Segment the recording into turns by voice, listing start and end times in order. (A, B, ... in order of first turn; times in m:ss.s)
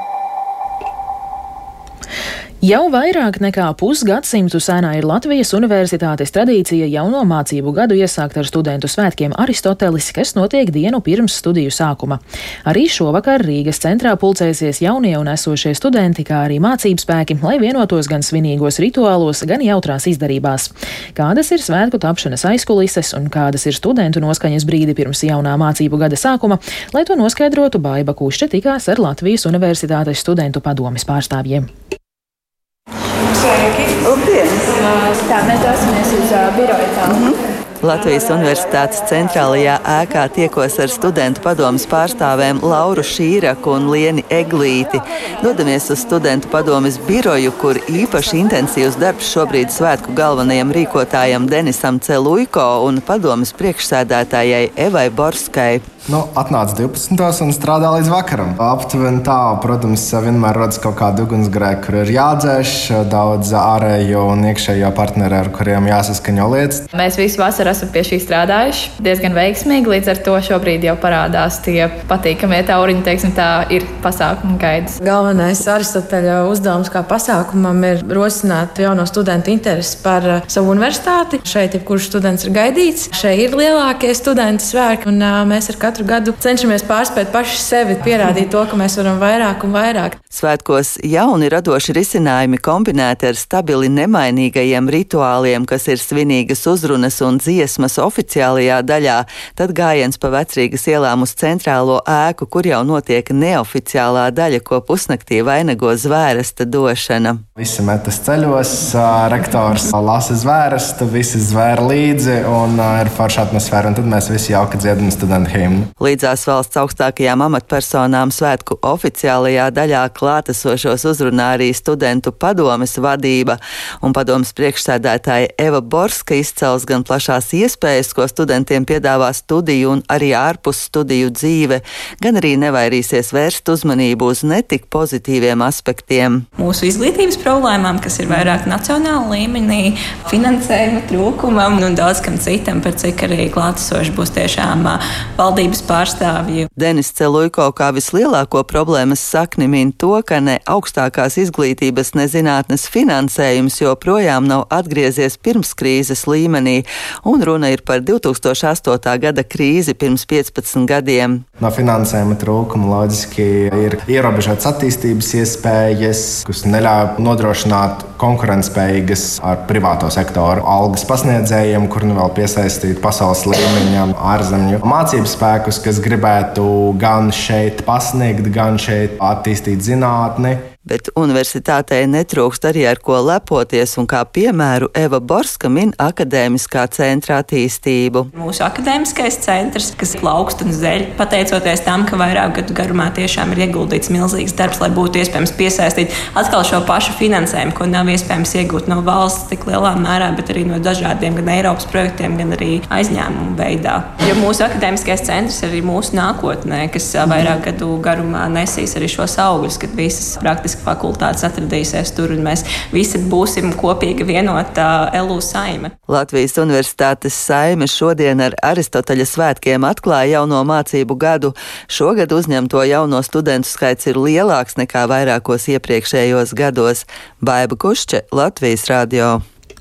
0:02.6-0:31.7 A
0:34.0-0:34.8 B
0:35.2-0:37.1 C
0:37.0-0:55.8 B
0:56.1-1:06.8 D
1:06.9-1:15.0 C
1:15.0-1:30.2 E
1:30.3-1:47.4 B
1:47.6-1:55.9 D
1:56.0-2:16.4 B
2:16.6-2:26.7 F
2:26.8-2:41.4 B
2:41.6-3:00.6 D
3:00.8-3:08.3 B
3:08.3-3:35.9 F
3:36.1-3:49.4 B